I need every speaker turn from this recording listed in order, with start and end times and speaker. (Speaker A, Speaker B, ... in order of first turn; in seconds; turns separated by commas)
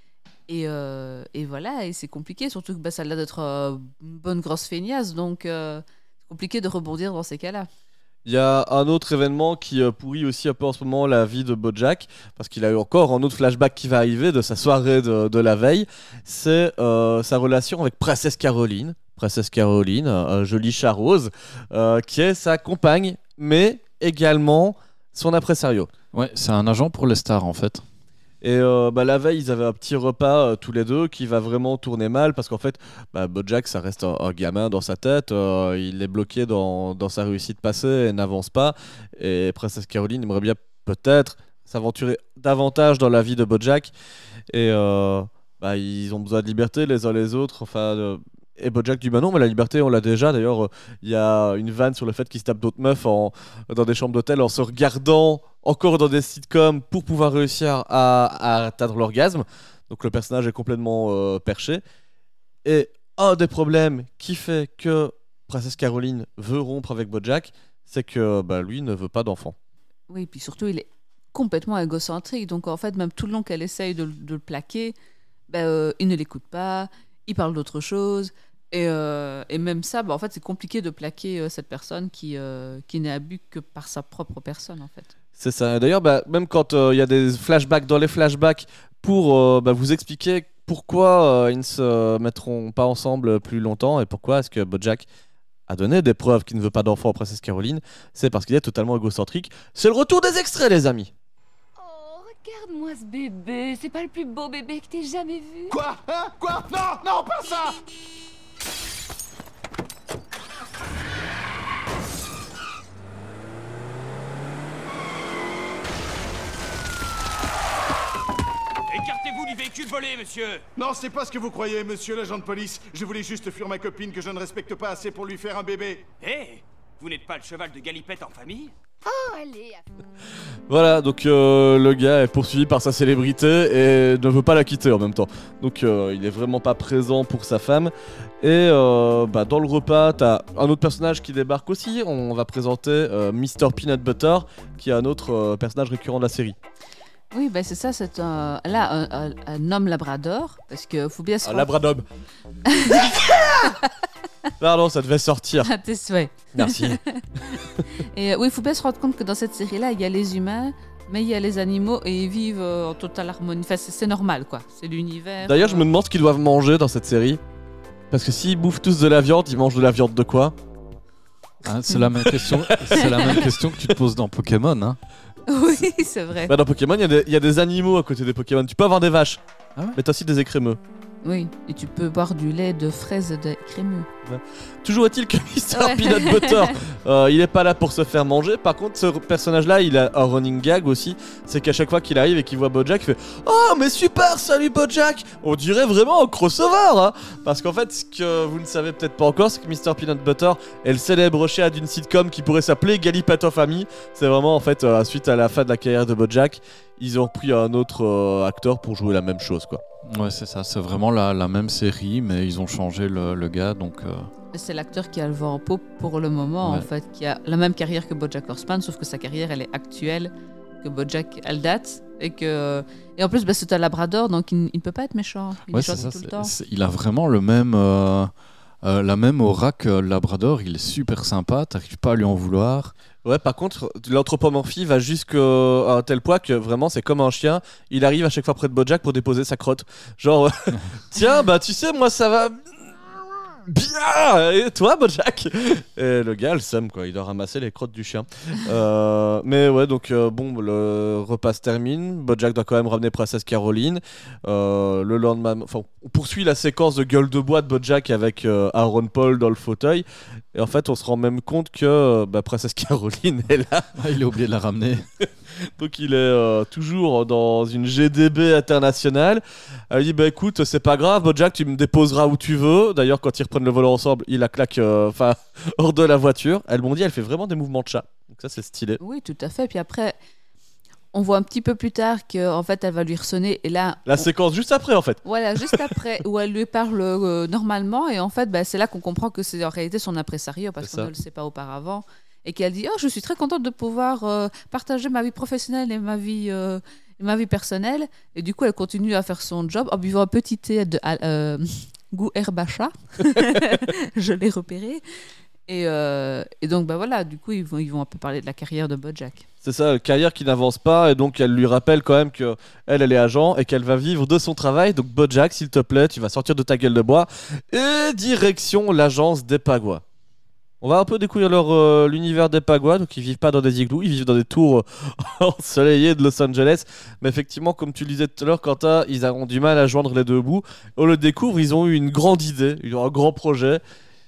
Speaker A: 0.5-7.7, Speaker B: 8.2-25.9, Speaker C: 26.1-27.8, Speaker B: 28.4-43.9, Speaker B: 44.5-61.8, Speaker B: 62.6-69.5, Speaker A: 70.1-74.9, Speaker A: 75.5-85.1, Speaker B: 85.4-95.0, Speaker B: 95.7-101.1, Speaker D: 101.8-105.8, Speaker E: 105.7-107.7, Speaker F: 118.9-120.6, Speaker E: 120.8-126.1, Speaker F: 126.2-128.7, Speaker D: 129.0-130.0, Speaker B: 130.7-146.6, Speaker A: 147.3-151.7, Speaker B: 151.4-152.0, Speaker A: 152.7-153.9, Speaker B: 152.9-153.4, Speaker B: 154.6-155.7, Speaker A: 155.6-165.9, Speaker B: 156.5-157.0, Speaker B: 165.4-167.4, Speaker B: 168.1-170.5, Speaker C: 171.6-175.0, Speaker B: 172.3-173.1, Speaker A: 173.0-173.4, Speaker A: 175.5-176.5, Speaker B: 176.5-179.4, Speaker B: 179.9-180.8, Speaker A: 181.2-184.1, Speaker B: 184.2-209.8, Speaker A: 185.7-186.7, Speaker C: 210.1-214.3, Speaker A: 214.5-226.5, Speaker C: 225.7-232.9, Speaker B: 233.2-242.9, Speaker B: 243.7-263.9, Speaker C: 263.9-265.0, Speaker B: 265.6-279.0, Speaker A: 279.0-280.2, Speaker A: 281.1-284.3, Speaker B: 284.1-285.9, Speaker A: 285.2-305.0, Speaker B: 290.8-291.1, Speaker A: 305.7-309.4, Speaker B: 309.6-320.0, Speaker B: 320.8-333.8